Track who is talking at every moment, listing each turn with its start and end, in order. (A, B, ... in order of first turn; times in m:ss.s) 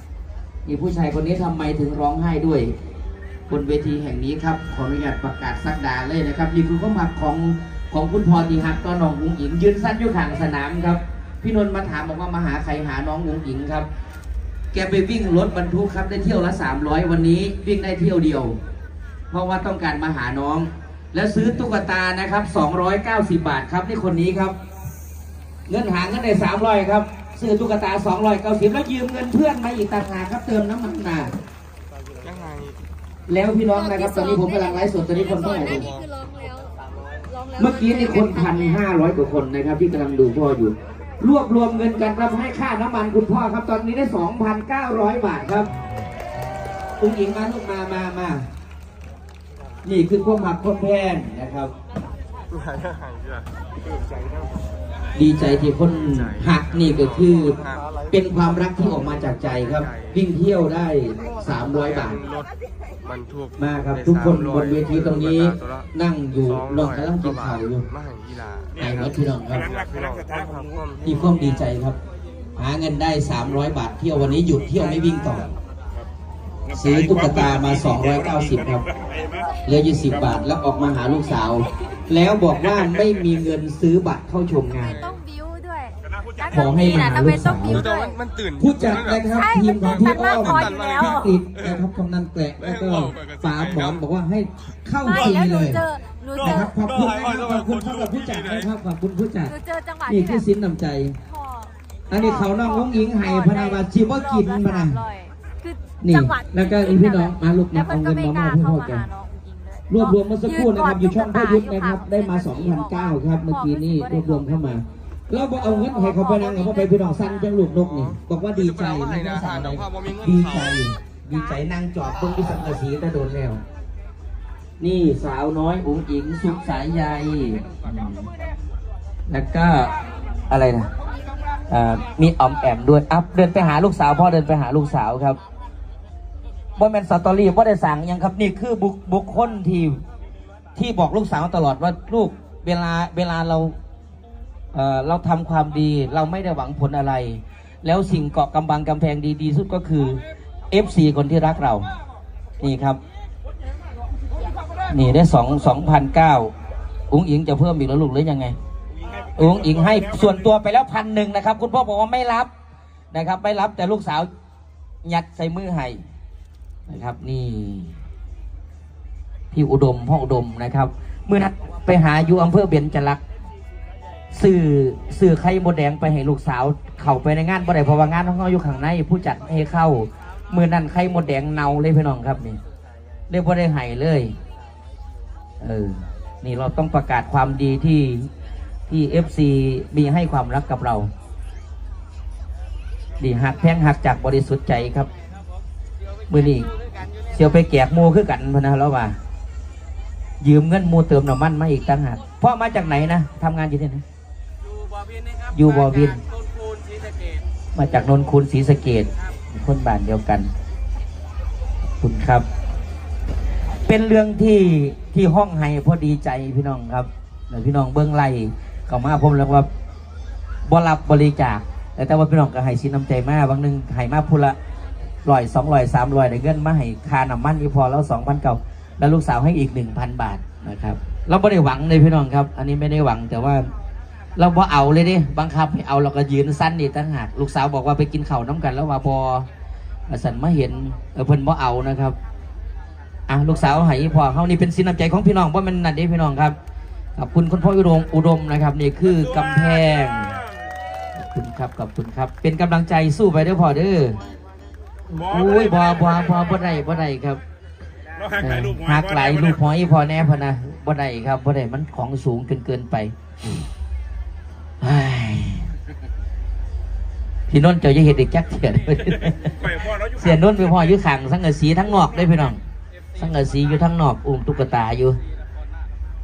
0:00.6-0:02.7 A
0:03.5-0:13.9 A
0:14.7-0:18.6 A
0:19.3-0:24.6 A
0:25.7-0:31.3 A
0:33.3-0:35.9 A
0:33.7-0:36.7 B
0:37.3-0:38.8 B
0:37.6-0:45.7 A
0:47.0-0:48.4 A
0:49.8-0:51.7 A
0:55.1-1:02.2 A
1:03.6-1:07.9 A
1:08.8-1:09.7 A
1:09.5-1:10.9 C
1:09.7-1:10.8 D
1:11.0-1:12.0 A
1:12.6-1:15.5 A
1:16.7-1:20.4 C
1:16.7-1:18.8 A
1:19.6-1:25.0 A
1:24.8-1:28.2 B
1:26.0-1:27.2 C
1:26.5-1:27.9 A
1:27.8-1:31.3 D
1:28.6-1:35.9 A
1:29.3-1:31.3 B
1:35.0-1:36.7 B
1:36.4-1:41.2 A
1:39.5-1:40.4 B
1:41.3-1:54.6 B
1:42.1-1:45.0 A
1:46.0-1:49.1 A
1:49.9-2:03.6 A
1:55.6-1:57.6 B
1:58.9-1:59.8 D
2:04.8-2:08.3 A
2:09.3-2:09.9 A
2:10.5-2:10.9 A
2:11.7-2:15.4 A
2:16.8-2:20.0 A
2:20.7-2:23.8 A
2:24.7-2:31.9 A
2:32.6-2:33.0 A
2:34.9-2:36.5 A
2:37.1-2:38.6 A
2:39.3-2:42.5 A
2:43.1-2:44.3 A
2:45.0-2:46.0 A
2:46.9-2:48.0 A
2:49.5-2:53.2 A
2:54.3-3:02.6 A
3:03.3-3:04.4 A
3:05.6-3:08.3 A
3:08.9-3:11.1 A
3:13.2-3:15.1 A
3:16.0-3:17.6 E
3:16.3-3:16.7 A
3:17.3-3:19.2 A
3:20.4-3:24.0 A
3:24.6-3:28.0 E
3:25.5-3:26.2 A
3:27.7-3:30.5 A
3:32.0-3:32.4 A
3:33.8-3:39.7 A
3:40.6-3:44.6 A
3:45.2-3:53.7 A
3:54.4-3:59.5 A
4:00.1-4:02.2 A
4:03.3-4:06.6 A
4:07.2-4:10.4 A
4:09.2-4:10.4 C
4:11.2-4:14.2 A
4:15.1-4:16.6 C
4:15.1-4:17.4 A
4:18.1-4:19.6 C
4:18.4-4:23.6 A
4:24.8-4:25.7 A
4:27.5-4:29.5 A
4:29.4-4:30.9 C
4:30.2-4:32.6 A
4:33.2-4:35.2 A